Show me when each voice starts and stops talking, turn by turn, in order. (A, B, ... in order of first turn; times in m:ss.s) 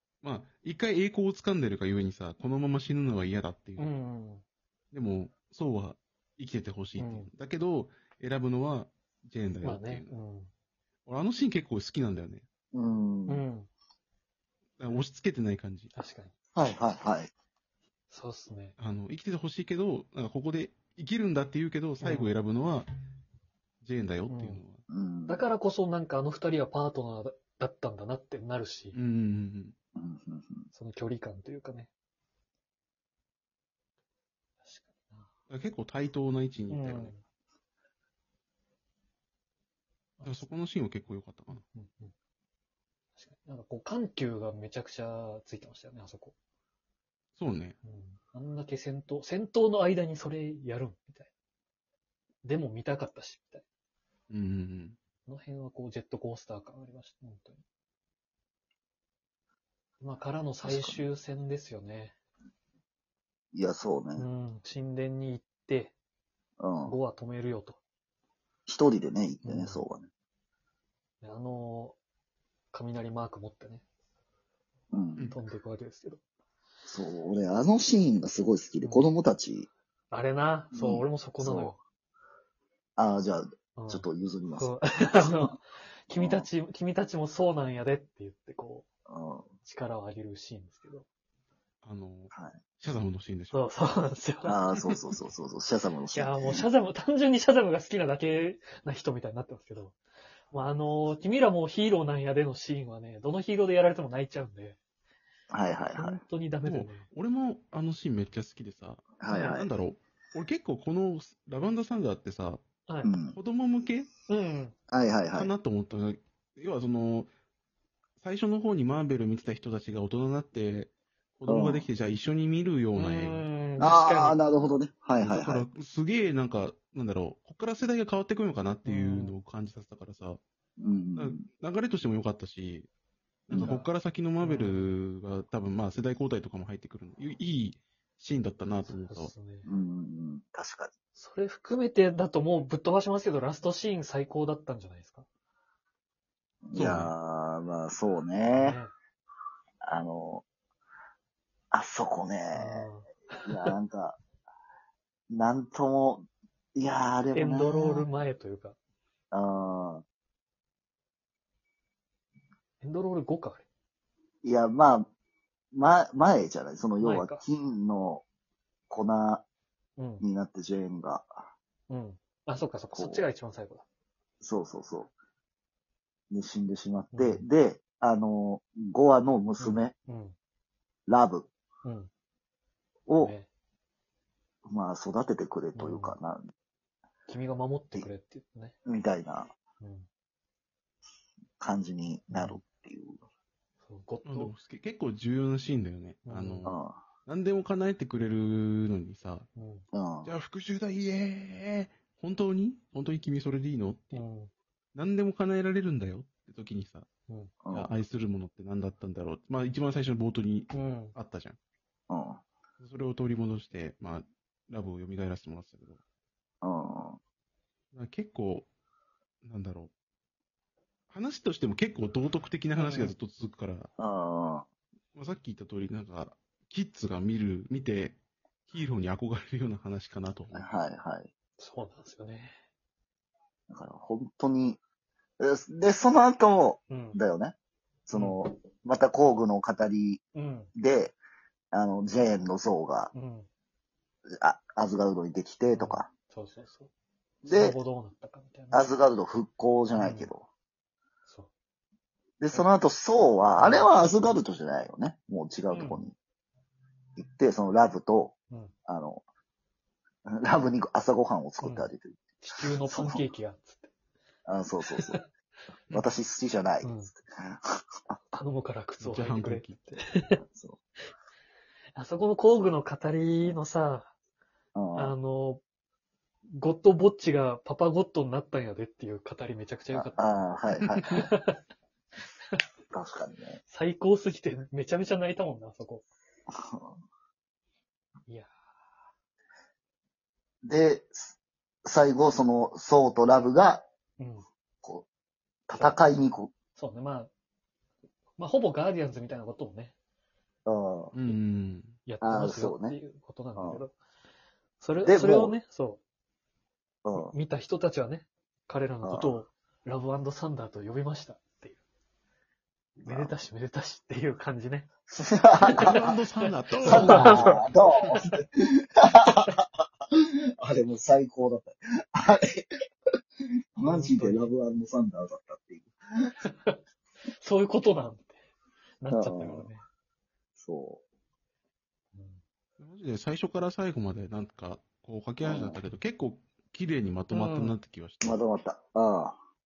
0:00.2-0:03.9 A
0:03.8-0:04.4 B
0:04.9-0:10.1 A
0:07.0-0:07.3 B
0:09.6-0:10.5 B
0:11.0-0:12.4 A
0:12.7-0:13.4 C
0:13.3-0:13.7 B
0:14.8-0:15.9 A
0:15.9-0:16.3 B
0:16.5-0:17.3 C
0:18.1-0:18.8 B
0:18.8-0:22.9 A
0:22.0-0:22.4 B
0:23.8-0:24.8 A
0:24.3-0:24.6 B
0:24.9-0:25.5 C
0:25.3-0:29.0 B
0:28.9-0:29.7 A
0:30.0-0:30.7 C
0:30.7-0:31.9 B
0:34.6-0:35.3 B
0:35.5-0:37.1 A
0:36.7-0:37.2 B
0:40.2-0:40.5 B
0:40.2-0:41.6 A
0:41.7-0:42.1 B
0:43.2-0:46.3 B
0:47.4-0:47.8 A
0:47.8-0:51.3 B
0:52.4-0:53.6 B
0:54.3-0:55.0 A
0:55.2-0:57.6 B
1:00.0-1:02.1 B
1:00.6-1:01.0 C
1:03.5-1:04.2 C
1:04.2-1:05.9 B
1:06.6-1:07.0 C
1:06.8-1:07.8 B
1:08.7-1:10.1 C
1:09.4-1:09.8 B
1:11.2-1:12.0 B
1:12.7-1:13.8 B
1:14.9-1:15.3 C
1:15.3-1:16.2 B
1:16.9-1:19.7 C
1:18.8-1:19.1 B
1:20.1-1:21.8 B
1:20.7-1:21.7 C
1:23.0-1:25.6 C
1:23.8-1:28.9 B
1:26.2-1:26.4 C
1:29.1-1:29.5 C
1:29.6-1:31.0 B
1:31.8-1:33.7 A
1:32.3-1:32.6 C
1:33.5-1:34.6 B
1:34.4-1:36.6 C
1:36.1-1:40.0 B
1:40.5-1:44.8 B
1:45.5-1:46.2 C
1:45.9-1:47.0 B
1:46.6-1:52.6 A
1:49.2-1:49.7 C
1:49.3-1:49.6 B
1:52.9-1:53.1 B
1:53.0-1:53.4 C
1:53.3-1:54.1 A
1:54.3-1:54.7 B
1:54.9-1:55.5 C
1:55.3-1:57.3 A
1:58.2-2:03.5 A
2:01.5-2:01.9 C
2:03.0-2:04.4 B
2:03.8-2:05.6 C
2:05.2-2:10.4 A
2:08.8-2:09.4 B
2:10.8-2:11.4 C
2:11.2-2:12.9 A
2:13.5-2:19.3 A
2:13.5-2:13.8 C
2:13.6-2:13.8 B
2:14.4-2:15.0 B
2:18.9-2:19.7 B
2:19.6-2:20.9 C
2:21.1-2:25.2 B
2:26.6-2:28.8 C
2:26.7-2:27.1 A
2:28.5-2:28.9 B
2:29.8-2:30.4 C
2:31.7-2:32.9 C
2:32.5-2:33.7 B
2:33.4-2:34.2 C
2:35.3-2:38.1 C
2:37.3-2:38.8 B
2:39.3-2:40.0 C
2:42.8-2:43.6 B
2:44.4-2:45.1 C
2:45.7-2:48.2 C
2:47.0-2:47.4 B
2:48.9-2:49.4 C
2:50.0-2:50.2 B
2:50.2-2:51.4 C
2:51.9-2:53.8 B
2:52.9-2:53.2 C
2:54.4-2:55.1 C
2:56.3-2:59.9 C
2:57.1-2:57.5 B
2:59.6-3:00.4 B
3:01.1-3:01.5 C
3:01.8-3:02.1 B
3:03.1-3:03.3 C
3:03.2-3:03.5 B
3:04.6-3:06.5 C
3:05.7-3:06.2 B
3:07.3-3:08.7 B
3:08.8-3:09.5 C
3:09.8-3:10.1 B
3:11.6-3:13.2 C
3:12.3-3:12.6 B
3:13.8-3:14.5 B
3:14.2-3:19.5 A
3:16.2-3:16.7 B
3:16.6-3:17.0 C
3:19.5-3:19.8 B
3:19.9-3:20.3 C
3:20.2-3:24.2 A
3:24.1-3:24.5 B
3:24.9-3:27.1 A
3:27.6-3:27.9 C
3:27.7-3:31.6 A
3:30.7-3:31.1 B
3:32.1-3:32.4 C
3:32.8-3:36.0 A
3:36.6-3:37.2 C
3:37.9-3:38.7 A
3:39.4-3:39.9 A
3:41.1-3:43.9 A
3:42.8-3:43.1 B
3:44.0-3:44.6 C
3:45.1-3:50.6 A
3:50.5-3:51.3 C
3:51.6-3:52.6 B
3:53.7-3:54.8 C
3:55.4-3:57.6 C
3:56.9-3:57.2 B
3:58.1-4:00.2 C
3:58.1-3:58.4 B
4:00.3-4:00.7 B
4:00.8-4:01.2 C
4:01.7-4:03.1 C
4:03.1-4:03.5 B
4:04.4-4:06.1 C
4:05.7-4:06.9 B
4:07.4-4:08.9 B
4:07.4-4:07.8 C
4:08.7-4:10.5 C
4:09.9-4:10.3 B
4:11.2-4:11.5 B
4:12.4-4:16.1 C
4:13.6-4:14.3 B
4:15.7-4:16.1 B
4:17.2-4:18.3 C
4:18.8-4:19.2 C
4:20.3-4:23.2 C
4:21.6-4:21.9 B
4:22.4-4:23.9 B
4:24.4-4:25.2 C
4:25.9-4:28.2 C
4:26.8-4:27.1 B
4:28.3-4:30.4 B
4:29.0-4:29.8 A
4:30.5-4:30.8 C
4:31.9-4:34.1 B
4:34.7-4:35.1 C
4:34.9-4:35.6 B
4:36.5-4:40.2 B
4:39.9-4:41.2 C
4:41.0-4:41.6 B
4:42.9-4:43.6 C
4:43.7-4:46.0 B
4:46.5-4:47.0 C
4:50.6-4:51.3 C
4:51.8-4:53.8 C
4:54.2-4:54.4 B
4:55.7-4:56.5 C
4:55.7-4:56.0 B
4:56.8-4:57.3 B
4:58.4-4:59.9 B
5:00.6-5:01.3 C
5:01.1-5:02.0 A
5:02.0-5:03.9 B
5:02.2-5:03.0 C
5:03.6-5:03.8 C
5:04.8-5:06.0 B
5:05.0-5:05.6 C
5:07.0-5:07.3 C
5:07.2-5:11.8 B
5:09.0-5:09.4 C
5:13.0-5:18.4 B
5:13.0-5:13.3 C
5:15.2-5:16.0 C
5:15.7-5:18.2 A
5:16.8-5:22.6 C
5:23.8-5:25.9 C
5:23.8-5:24.8 B
5:26.4-5:26.8 B
5:27.4-5:28.3 B
5:29.0-5:29.8 B
5:29.1-5:29.7 C
5:30.6-5:31.0 C
5:32.1-5:32.4 B
5:32.8-5:38.4 A
5:35.4-5:35.8 C
5:37.3-5:37.8 B
5:38.2-5:39.4 C